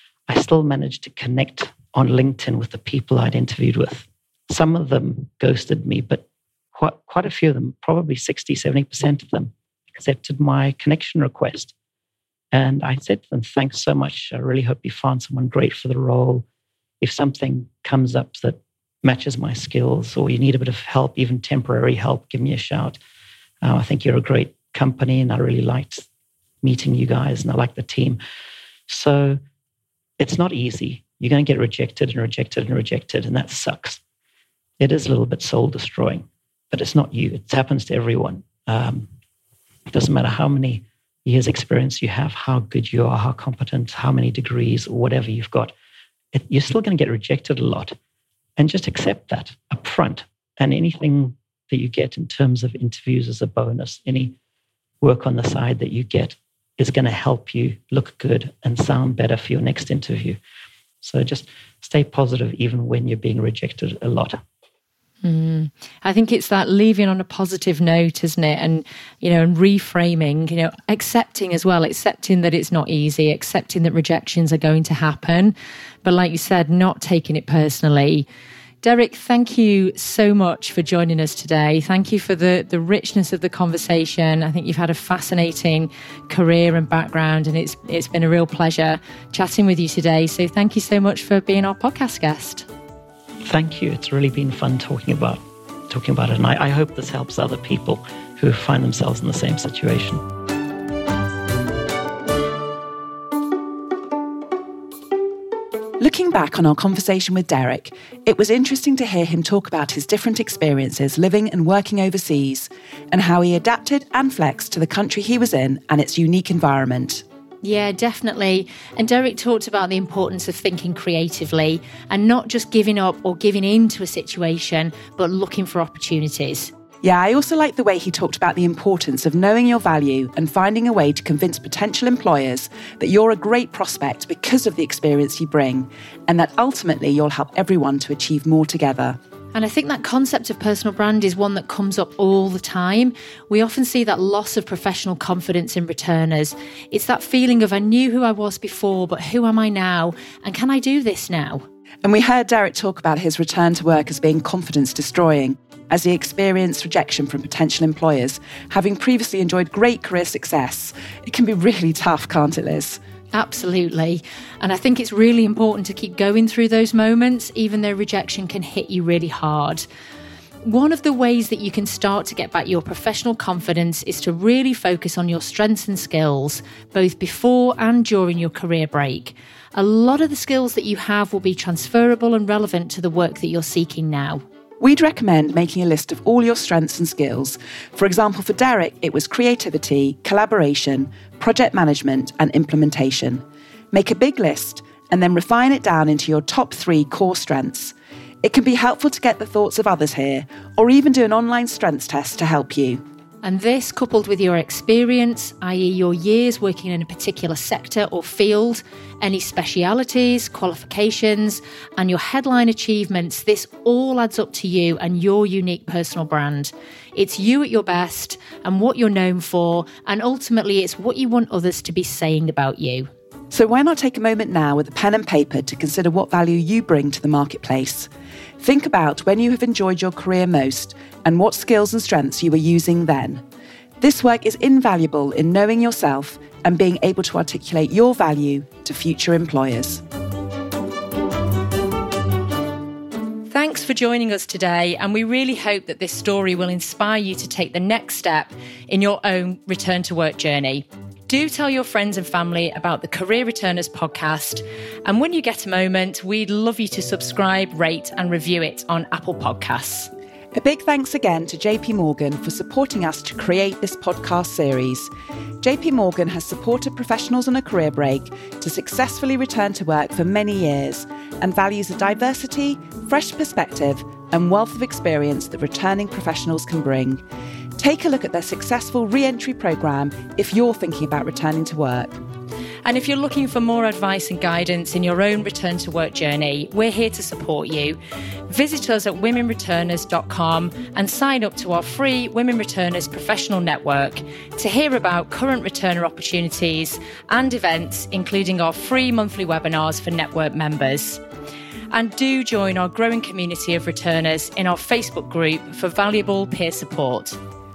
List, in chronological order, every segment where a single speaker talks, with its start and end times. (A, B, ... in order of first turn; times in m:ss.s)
0:00.3-0:11.7 A
0:12.5-0:16.4 A
0:17.0-0:23.0 A
0:23.6-0:26.1 A
0:26.6-0:28.2 A
0:28.9-0:29.4 A
0:30.2-0:34.0 A
0:34.8-0:39.1 A
0:39.9-0:45.7 A
0:46.3-0:48.0 A
0:48.6-0:54.4 A
0:55.0-1:00.4 A
1:01.0-1:04.4 A
1:05.2-1:18.3 B
1:18.8-1:32.7 B
1:33.4-1:40.2 A
1:46.0-1:57.2 C
1:57.6-2:06.7 B
2:07.0-2:19.2 C
2:19.5-2:31.6 B
2:32.0-2:43.0 C
2:43.3-2:49.8 B
2:50.6-3:04.4 B
3:04.8-3:23.0 C
3:23.4-3:43.1 B
3:43.5-3:48.1 C
3:48.6-3:53.4 C
3:54.0-4:00.0 C
4:03.5-4:20.1 B
4:20.5-4:25.1 C
4:25.6-4:37.2 C
4:37.8-4:42.2 C
4:42.8-4:48.0 B
4:48.5-5:01.2 B
5:01.9-5:07.4 B